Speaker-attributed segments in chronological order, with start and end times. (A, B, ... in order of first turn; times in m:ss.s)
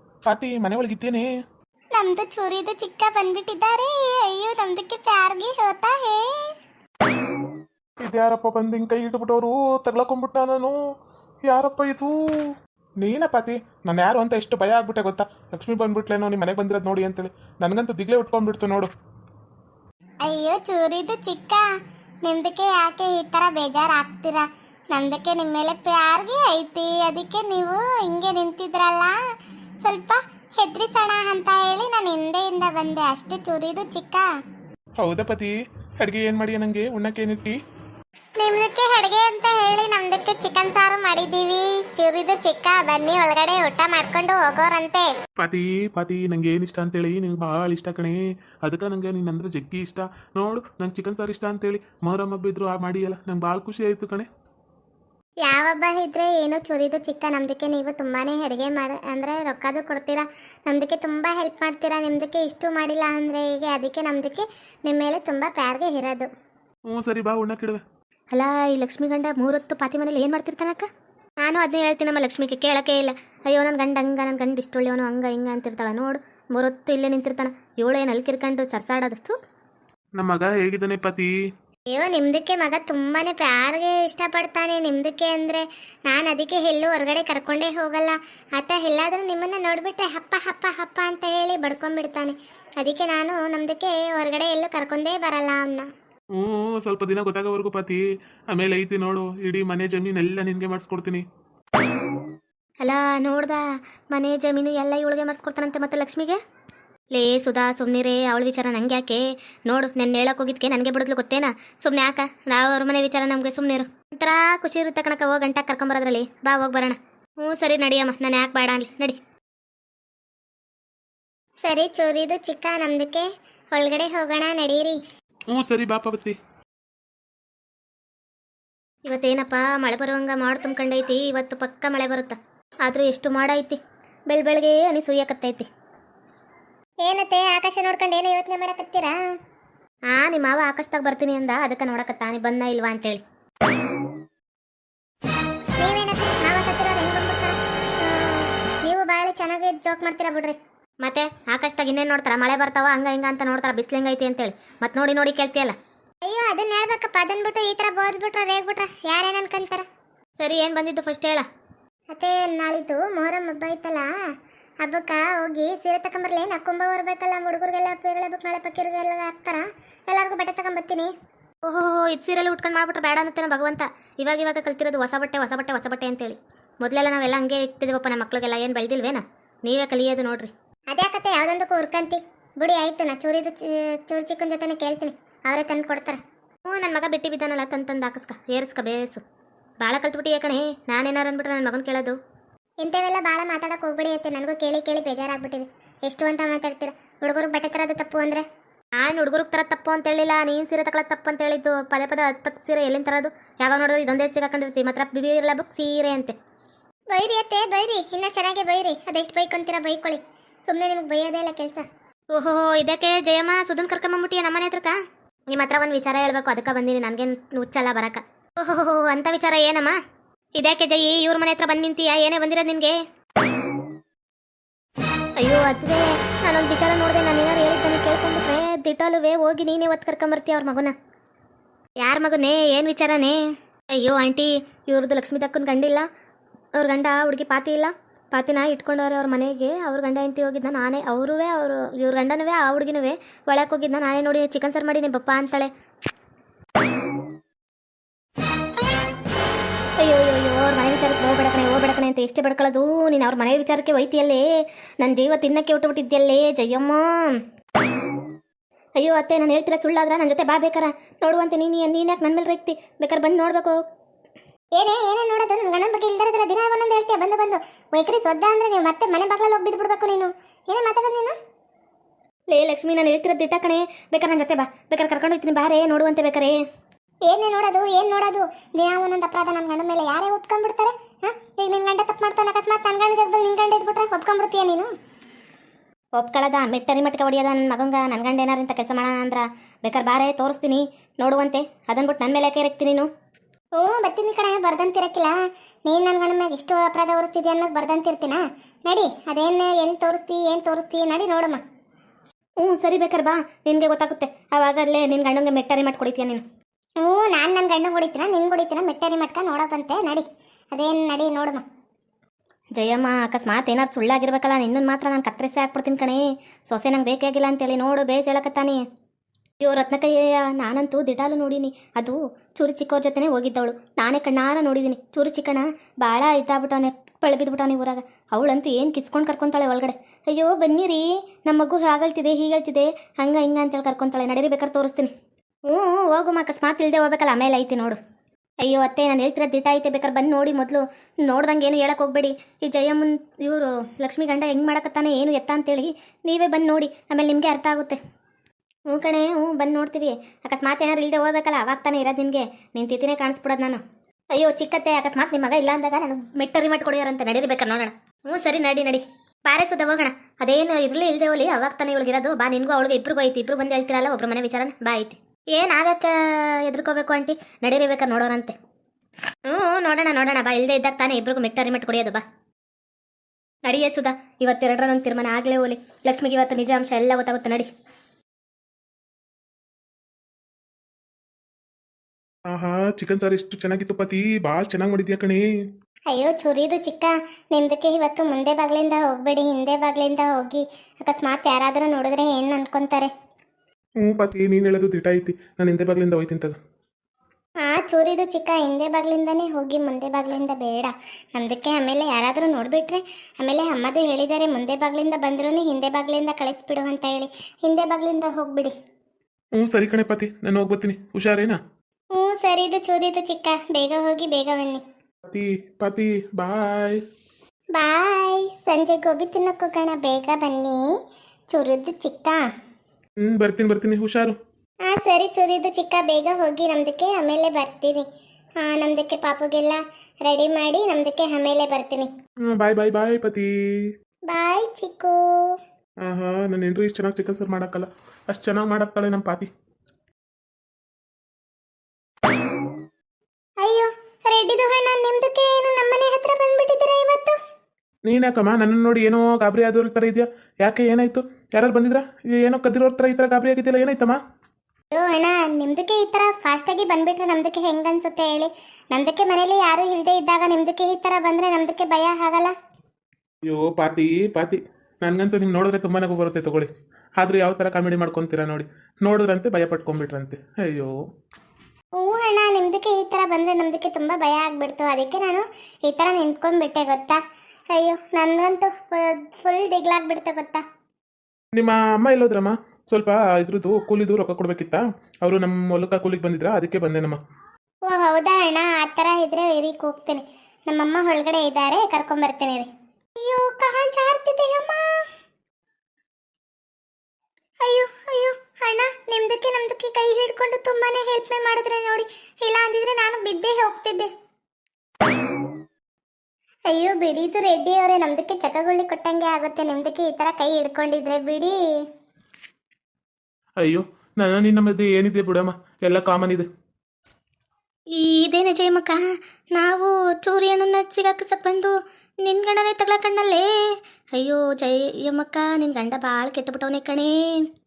0:00.3-0:01.3 A
0:01.9-0:06.5 B
0:08.0-0:10.8 A
0:11.5-0:12.2 A
0:13.0-0:18.9 A
0:20.2-0:21.6 B
0:22.2-0:29.2 B
0:29.8-0:34.2 B
0:35.0-0:37.6 A
0:38.4-0:45.1 B
0:45.4-0:54.3 A
0:55.4-1:06.3 B
1:06.9-1:07.8 A
1:08.3-1:10.9 C
1:11.4-1:19.4 C
1:20.2-1:21.3 A
1:21.9-1:35.9 B
1:36.4-1:41.2 A
1:42.8-1:46.4 C
1:47.1-1:59.2 C
2:01.6-2:05.0 B
2:05.5-2:06.3 A
2:09.0-2:15.7 C
2:17.0-2:19.1 B
2:20.1-2:23.2 C
2:25.8-2:30.6 B
2:31.0-2:35.8 C
2:36.2-2:39.8 B
2:40.4-2:41.5 C
2:42.1-2:44.1 B
2:44.8-2:51.1 B
2:51.6-3:00.5 C
3:00.9-3:06.2 B
3:06.6-3:09.2 C
3:09.8-3:12.2 C
3:12.8-3:18.4 B
3:19.0-3:26.4 C
3:27.1-3:31.8 B
3:32.3-3:35.0 C
3:35.5-3:40.0 C
3:40.6-3:43.0 C
3:45.4-3:50.9 C
3:52.0-3:53.4 C
3:54.0-3:56.1 C
3:56.8-4:05.7 C
4:10.0-4:14.5 C
4:15.0-4:17.4 C
4:19.0-4:23.8 C
4:24.8-4:31.3 B
4:32.5-4:36.6 C
4:37.3-4:44.9 B
4:46.2-4:53.1 C
4:53.8-5:01.6 B
5:02.6-5:06.4 C
5:07.0-5:11.6 B
5:12.8-5:18.8 C
5:19.6-5:35.1 C
5:35.7-5:38.0 C
5:38.6-5:48.0 C
5:48.9-5:53.8 C
5:54.3-6:08.6 C
6:09.5-6:12.2 C
6:13.6-6:17.7 C
6:22.5-6:25.4 A
6:26.1-6:33.1 B
6:34.0-6:36.6 A
6:37.6-6:48.7 B
6:49.6-6:51.6 A
6:52.2-6:54.8 B
6:55.3-6:57.0 A
6:57.7-7:00.8 B
7:01.5-7:02.4 B
7:03.2-7:04.4 A
7:04.8-7:08.0 B
7:08.6-7:12.1 B
7:12.5-7:13.5 A
7:14.3-7:15.5 B
7:16.0-7:19.5 A
7:23.6-7:27.4 B
7:28.0-7:34.2 A
7:34.9-7:42.5 B
7:43.5-7:50.9 A
7:52.0-7:57.2 B
7:57.7-8:00.6 B
8:01.5-8:07.2 A
8:07.9-8:14.8 B
8:17.6-8:24.1 B
8:26.7-8:31.6 B
8:33.6-8:36.5 A
8:37.9-8:39.0 C
8:39.5-8:43.5 C
8:44.2-8:47.4 C